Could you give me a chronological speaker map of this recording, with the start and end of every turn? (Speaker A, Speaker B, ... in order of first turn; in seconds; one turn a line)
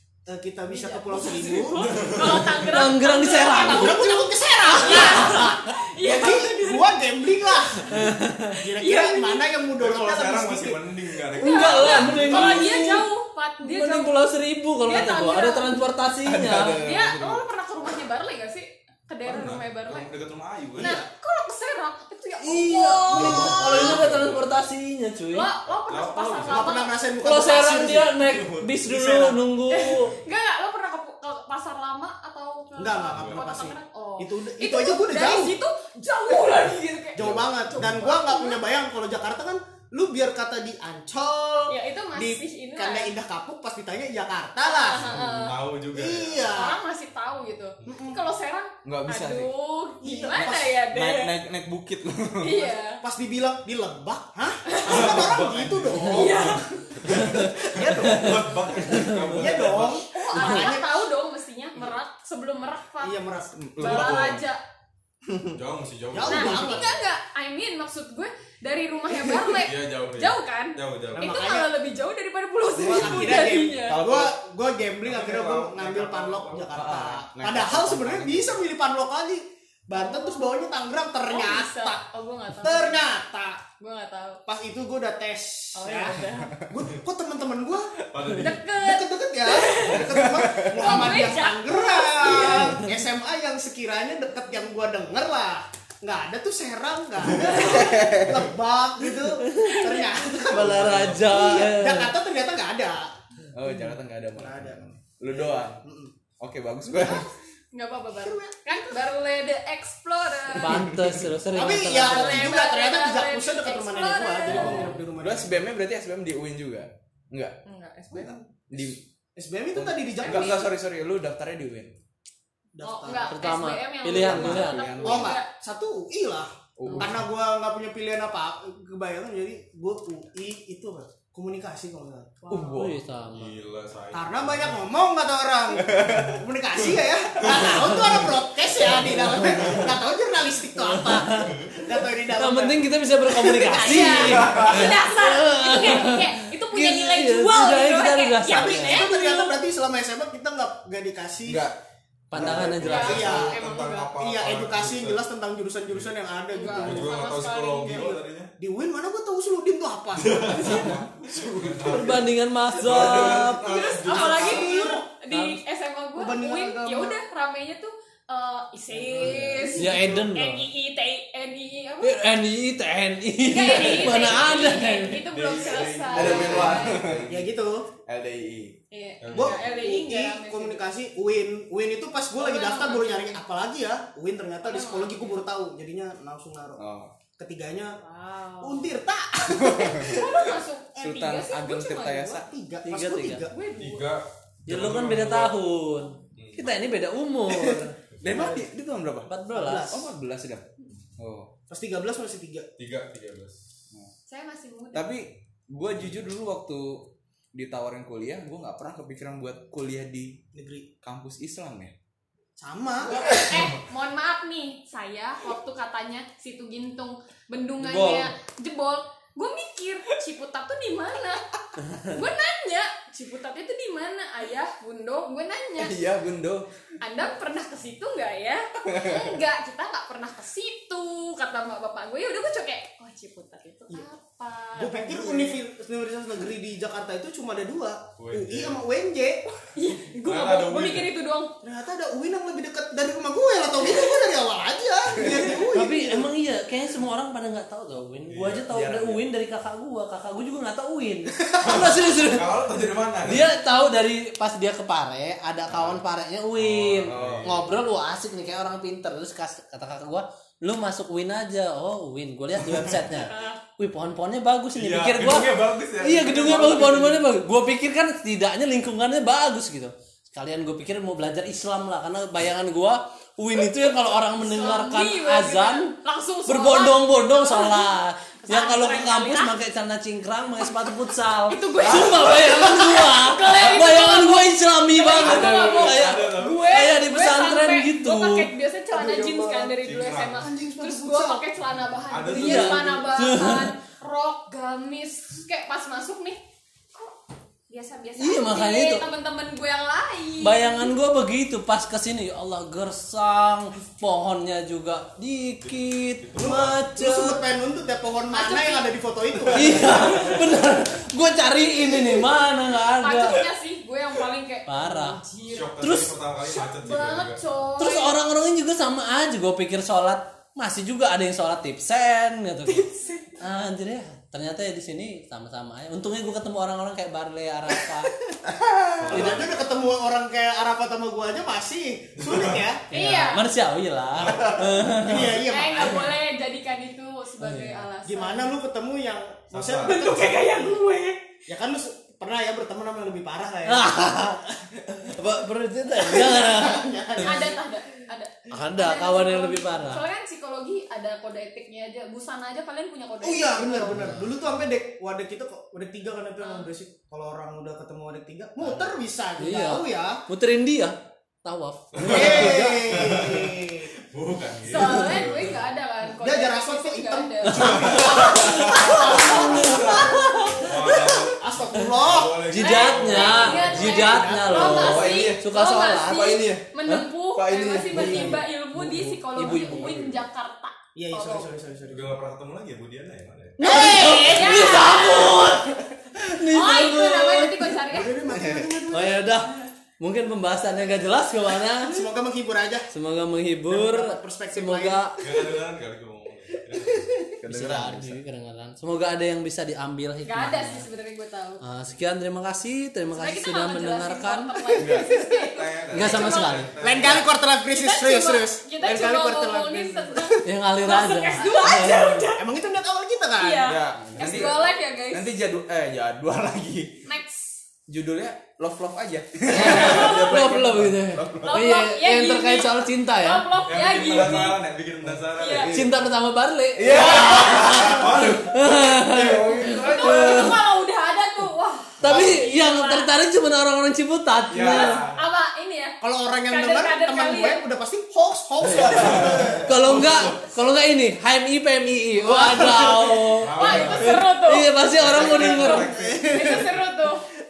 Speaker A: 0.3-1.9
Speaker B: 0.7-9.5
Speaker C: 1.9-2.4
Speaker D: 2.4-4.2
Speaker A: 3.5-10.9
Speaker D: 4.9-5.4
Speaker D: 7.8-8.6
Speaker C: 9.7-12.6
Speaker D: 11.3-13.1
Speaker B: 11.3-14.2
Speaker D: 13.6-16.8
Speaker B: 14.8-15.8
Speaker E: 16.2-17.4
Speaker B: 16.9-20.1
Speaker C: 19.2-21.0
Speaker B: 20.8-23.9
Speaker D: 22.4-25.5
Speaker C: 23.1-24.6
Speaker A: 23.1-24.0
Speaker B: 25.3-27.0
Speaker C: 25.7-26.8
Speaker A: 26.4-28.2
Speaker D: 27.2-30.1
Speaker C: 28.1-29.2
Speaker A: 28.9-29.3
Speaker B: 29.7-37.4
Speaker A: 32.8-35.5
Speaker C: 33.1-33.5
Speaker A: 37.2-45.2
Speaker C: 37.2-38.1
Speaker B: 38.0-38.6
Speaker B: 41.7-43.1
Speaker B: 44.6-45.6
Speaker C: 45.0-46.5
Speaker A: 45.9-46.8
Speaker B: 46.5-51.3
Speaker A: 47.9-48.2
Speaker E: 48.8-49.5
Speaker A: 50.0-50.8
Speaker E: 50.4-52.7
Speaker B: 52.4-53.0
Speaker A: 53.0-61.0
Speaker B: 54.7-55.2
Speaker C: 54.8-60.0
Speaker B: 56.1-56.7
Speaker B: 60.1-63.2
Speaker D: 60.4-60.7
Speaker A: 63.0-64.1
Speaker E: 63.6-64.4
Speaker B: 63.8-64.6
Speaker C: 63.8-64.4
Speaker C: 65.5-66.8
Speaker A: 66.1-66.9
Speaker B: 66.3-74.0
Speaker C: 69.5-71.3
Speaker A: 71.2-71.7
Speaker A: 72.7-83.6
Speaker E: 72.9-74.3
Speaker C: 75.0-76.9
Speaker E: 76.8-78.6
Speaker B: 79.9-83.0
Speaker B: 83.8-84.4
Speaker A: 84.5-88.0
Speaker B: 85.7-86.5
Speaker C: 88.1-88.6
Speaker B: 88.4-90.1
Speaker A: 88.5-103.1
Speaker E: 90.0-91.1
Speaker B: 90.8-92.8
Speaker B: 97.5-97.8
Speaker E: 97.5-98.4
Speaker D: 99.0-102.2
Speaker B: 99.6-100.1
Speaker C: 100.7-101.1
Speaker E: 103.5-105.8
Speaker A: 104.4-106.1
Speaker E: 106.4-107.3
Speaker B: 106.9-110.9
Speaker A: 108.2-109.0
Speaker D: 110.5-112.6
Speaker E: 110.9-111.1
Speaker A: 111.5-115.6
Speaker B: 111.6-114.9
Speaker D: 114.5-115.0
Speaker E: 114.5-117.6
Speaker B: 117.7-118.4
Speaker A: 118.1-120.7
Speaker E: 118.7-119.0
Speaker E: 119.7-121.9
Speaker B: 120.2-120.7
Speaker A: 122.8-123.4
Speaker B: 122.8-125.5
Speaker D: 123.2-124.9
Speaker E: 124.1-125.3
Speaker A: 124.6-132.8
Speaker E: 126.8-127.2
Speaker E: 132.5-133.0
Speaker D: 132.5-133.6
Speaker C: 133.3-134.8
Speaker A: 134.1-144.8
Speaker E: 135.9-136.3
Speaker C: 136.0-136.4
Speaker C: 137.5-138.3
Speaker D: 137.5-138.2
Speaker C: 138.8-139.9
Speaker D: 139.1-139.8
Speaker D: 140.8-141.5
Speaker C: 141.4-141.8
Speaker D: 142.3-149.1
Speaker B: 143.7-149.6
Speaker C: 144.4-145.0
Speaker A: 148.5-151.7
Speaker E: 151.5-151.8
Speaker D: 152.3-153.4
Speaker E: 152.3-152.7
Speaker A: 152.3-153.6
Speaker C: 152.4-155.2
Speaker B: 152.8-154.1
Speaker A: 154.2-157.4
Speaker C: 155.9-156.1
Speaker B: 156.5-158.2
Speaker C: 156.7-158.5
Speaker A: 157.9-161.0
Speaker C: 160.1-164.9
Speaker E: 160.7-162.2
Speaker D: 161.8-163.7
Speaker A: 163.1-165.0
Speaker B: 163.7-172.3
Speaker D: 165.3-165.6
Speaker A: 166.2-167.2
Speaker A: 168.9-170.2
Speaker D: 169.8-170.7
Speaker D: 172.0-175.2
Speaker B: 173.4-177.0
Speaker C: 175.3-177.5
Speaker E: 175.5-177.5
Speaker A: 176.5-177.9
Speaker E: 178.1-178.8
Speaker B: 178.9-180.8
Speaker C: 179.2-179.7
Speaker A: 179.3-186.8
Speaker B: 182.4-183.4
Speaker B: 184.6-185.4
Speaker E: 186.8-187.1
Speaker A: 187.4-188.0
Speaker B: 188.0-189.0
Speaker A: 188.6-190.5
Speaker E: 189.5-190.3
Speaker B: 189.9-192.4
Speaker E: 191.0-192.5
Speaker A: 192.4-193.6
Speaker D: 192.8-193.5
Speaker B: 193.5-194.2
Speaker C: 193.8-195.6
Speaker D: 194.7-197.9
Speaker C: 196.4-196.7
Speaker E: 197.5-199.3
Speaker A: 198.3-198.6
Speaker D: 199.3-200.0
Speaker A: 199.5-200.1
Speaker E: 199.9-200.7
Speaker E: 201.2-201.5
Speaker A: 201.7-202.7
Speaker C: 202.8-203.6
Speaker B: 204.3-205.1
Speaker E: 204.9-210.4
Speaker A: 210.5-210.9
Speaker E: 211.0-211.9
Speaker A: 212.6-213.4
Speaker B: 213.3-221.4
Speaker D: 217.8-218.3
Speaker B: 221.9-226.0
Speaker E: 225.8-226.7
Speaker B: 227.0-235.6
Speaker E: 228.9-229.4
Speaker A: 234.8-239.5
Speaker C: 238.2-238.9
Speaker B: 239.7-241.5
Speaker C: 240.2-241.1
Speaker A: 241.6-246.3
Speaker B: 243.9-244.2
Speaker D: 245.7-252.5
Speaker C: 248.3-248.7
Speaker E: 248.7-249.2
Speaker C: 251.6-253.5
Speaker D: 253.2-275.9
Speaker C: 255.7-256.0
Speaker C: 256.6-257.6
Speaker E: 257.1-257.6
Speaker B: 263.1-263.6
Speaker C: 264.8-267.2
Speaker B: 274.4-279.5
Speaker D: 276.5-288.5
Speaker B: 281.5-296.4
Speaker C: 285.1-286.7
Speaker A: 288.9-289.7
Speaker C: 289.8-290.5
Speaker A: 290.4-291.4
Speaker C: 292.1-293.1
Speaker D: 292.3-293.8
Speaker B: 297.7-300.9
Speaker D: 298.2-299.1
Speaker D: 300.4-307.4
Speaker C: 305.6-306.8
Speaker A: 306.4-310.2
Speaker B: 308.3-308.9
Speaker D: 309.5-313.5
Speaker C: 309.8-310.6
Speaker B: 309.9-310.4
Speaker B: 313.0-315.8
Speaker D: 314.7-315.2
Speaker C: 315.4-317.4
Speaker D: 315.8-316.2
Speaker B: 316.4-318.2
Speaker D: 317.8-322.9
Speaker B: 322.7-323.3
Speaker D: 323.4-328.1
Speaker C: 329.0-329.7
Speaker A: 329.0-332.8
Speaker D: 329.1-329.4
Speaker C: 332.2-332.7
Speaker D: 332.9-335.4
Speaker B: 332.9-333.4
Speaker C: 334.2-335.0
Speaker A: 334.9-336.2
Speaker B: 335.5-338.6
Speaker D: 337.4-337.9
Speaker A: 338.1-340.8
Speaker C: 339.5-340.5
Speaker B: 339.9-341.2
Speaker D: 340.1-340.8
Speaker A: 341.5-343.9
Speaker D: 343.6-347.5
Speaker A: 344.9-345.3
Speaker A: 345.9-347.6
Speaker B: 347.2-354.0
Speaker D: 348.5-350.0
Speaker A: 353.2-360.2
Speaker D: 353.9-354.3
Speaker B: 356.4-356.7
Speaker D: 358.6-362.9
Speaker C: 361.9-365.6
Speaker A: 362.0-363.9
Speaker B: 364.6-369.4
Speaker A: 366.1-372.5
Speaker D: 367.5-371.3
Speaker C: 367.5-374.0
Speaker E: 369.6-370.1
Speaker D: 372.5-376.3
Speaker B: 372.6-381.6
Speaker A: 373.4-374.8
Speaker E: 374.4-376.7
Speaker E: 377.3-379.1
Speaker D: 377.9-380.0
Speaker C: 379.8-380.2
Speaker A: 380.9-382.1
Speaker C: 381.9-383.7
Speaker D: 383.6-385.8
Speaker A: 383.6-384.8
Speaker B: 383.6-385.5
Speaker D: 386.3-387.8
Speaker B: 386.5-388.2
Speaker A: 387.9-389.3
Speaker E: 388.3-388.8
Speaker D: 388.9-392.1
Speaker A: 391.8-392.9
Speaker D: 392.9-395.2
Speaker A: 393.7-395.5
Speaker C: 395.2-397.4
Speaker E: 397.4-398.2
Speaker D: 397.5-400.9
Speaker B: 400.2-401.6
Speaker D: 401.6-404.7
Speaker B: 403.1-406.7
Speaker E: 404.8-405.1
Speaker C: 405.5-407.3
Speaker D: 405.9-406.7
Speaker A: 406.8-410.5
Speaker B: 407.7-412.4
Speaker D: 410.4-412.3
Speaker A: 412.3-413.7
Speaker B: 413.4-415.3
Speaker E: 413.6-417.1
Speaker B: 417.1-417.6
Speaker E: 417.9-421.6
Speaker D: 419.5-423.5
Speaker C: 419.9-420.4
Speaker B: 421.5-424.6
Speaker C: 423.6-425.9
Speaker E: 424.0-425.1
Speaker B: 425.4-425.7
Speaker D: 425.7-430.6
Speaker E: 426.8-430.6
Speaker C: 427.0-428.6
Speaker B: 429.8-433.1
Speaker D: 432.0-435.0
Speaker E: 434.5-434.9
Speaker C: 434.5-435.2
Speaker B: 434.6-436.0
Speaker A: 436.0-439.7
Speaker B: 436.5-437.6
Speaker D: 438.8-439.1
Speaker C: 438.8-440.4
Speaker D: 439.6-446.7
Speaker B: 442.2-445.7
Speaker C: 443.3-444.2
Speaker E: 445.0-446.7
Speaker C: 445.1-446.8
Speaker B: 446.2-447.2